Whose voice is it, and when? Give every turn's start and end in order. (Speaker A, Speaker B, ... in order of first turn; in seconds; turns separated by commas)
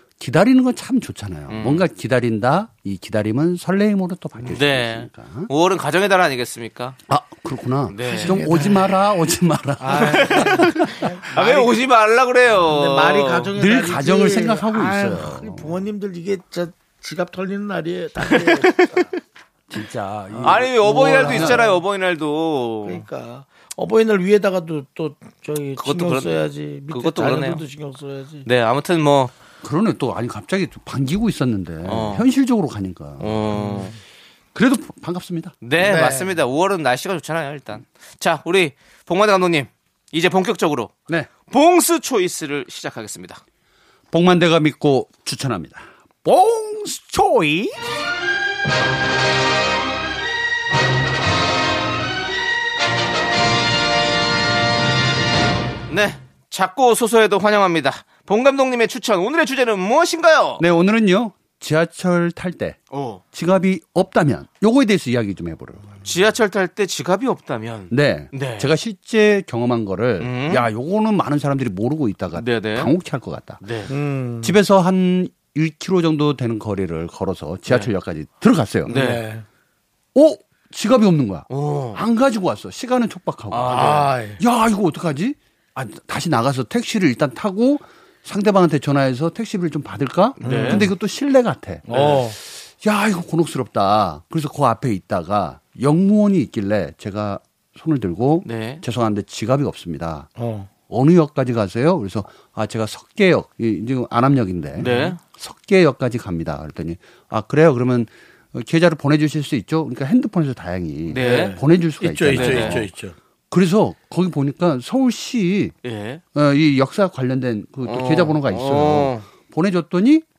Speaker A: 0.2-5.5, Speaker B: 1.5-1.9, Speaker B: 4.5-7.0, Speaker A: 7.1-11.1, Speaker B: 7.9-8.4, Speaker C: 8.1-8.9, Speaker C: 9.8-11.8, Speaker B: 9.9-13.5, Speaker C: 12.6-19.1, Speaker A: 13.6-15.7, Speaker B: 18.2-19.0, Speaker A: 19.7-21.6, Speaker C: 20.3-21.8, Speaker B: 20.4-23.0, Speaker C: 22.8-28.4, Speaker B: 25.8-27.6, Speaker B: 28.4-29.3, Speaker A: 29.6-33.6, Speaker B: 31.8-32.2, Speaker B: 33.2-33.9, Speaker A: 34.5-35.5, Speaker B: 35.6-40.9, Speaker C: 35.8-36.3, Speaker B: 41.5-43.4, Speaker A: 44.1-47.8, Speaker B: 55.9-60.6, Speaker A: 60.6-65.9, Speaker B: 62.9-63.2, Speaker B: 66.0-68.7, Speaker A: 67.9-73.6, Speaker B: 70.2-70.7, Speaker B: 72.3-72.9, Speaker B: 73.6-73.9, Speaker C: 73.9-74.6, Speaker A: 74.4-78.9, Speaker C: 78.8-79.4, Speaker B: 78.9-79.2, Speaker A: 80.1-100.3, Speaker B: 81.5-82.0, Speaker B: 83.5-84.1, Speaker C: 83.7-84.4, Speaker B: 90.4-90.9, Speaker C: 90.4-90.9, Speaker C: 91.9-92.3, Speaker B: 91.9-92.2, Speaker B: 98.4-98.8, Speaker C: 100.4-100.7, Speaker A: 100.8-112.9, Speaker C: 104.8-105.1, Speaker B: 104.8-105.2, Speaker B: 111.1-111.6, Speaker C: 111.1-113.1, Speaker B: 112.3-112.8, Speaker A: 113.5-115.8, Speaker B: 115.8-116.2, Speaker A: 116.3-120.2, Speaker B: 117.8-119.2